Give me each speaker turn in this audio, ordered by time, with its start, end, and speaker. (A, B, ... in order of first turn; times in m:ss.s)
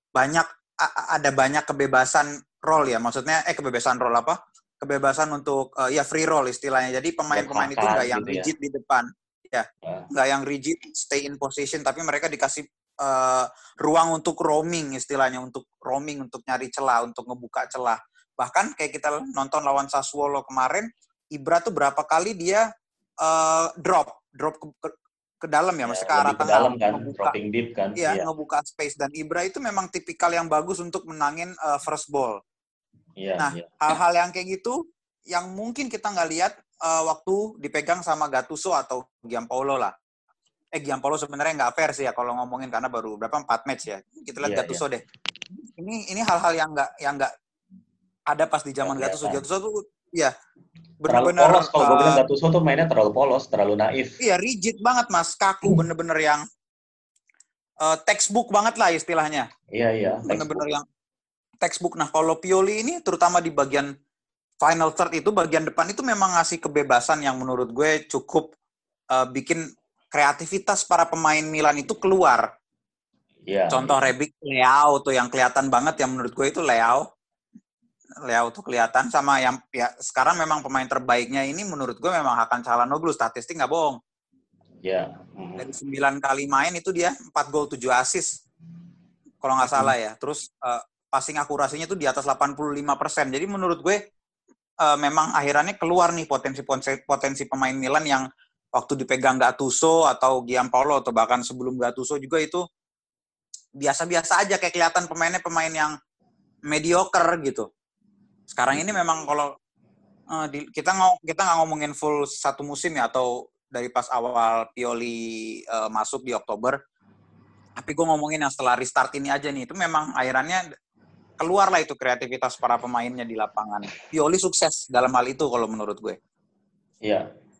0:00.2-0:22.6 A
0:07.3-0:08.5 B
0:23.2-0:24.9 A
0:25.4-0:27.3 A
0:25.9-0:28.3 B
0:28.0-0:32.4 A
0:33.2-0:33.8 B
0:33.4-0:34.8 A
0:35.3-0:39.9 A
0:40.8-0:45.0 A
0:44.4-0:44.8 B
0:45.6-0:47.3 A
0:48.3-0:50.3 A
0:48.8-0:49.4 B
0:51.0-0:52.2 A
0:51.1-0:54.2 B
0:54.2-0:56.4 A
0:57.8-0:59.5 A
0:59.7-1:00.6 B
1:00.3-1:00.8 A
1:01.6-1:03.9 A
1:04.6-1:08.5 A
1:09.1-1:09.6 A
1:10.1-1:12.4 A
1:13.5-1:14.1 B
1:13.7-1:17.0 A
1:18.3-1:24.0 A
1:24.8-1:25.7 B
1:25.6-1:28.3 A
1:29.4-1:34.0 A
1:34.8-1:38.2 A
1:38.8-1:42.6 A
1:43.8-1:45.9 A
1:46.7-1:47.7 A
1:48.5-1:49.5 A
1:50.3-1:55.2 A
1:55.7-1:56.8 A
1:57.8-2:00.6 A
2:01.4-2:06.2 A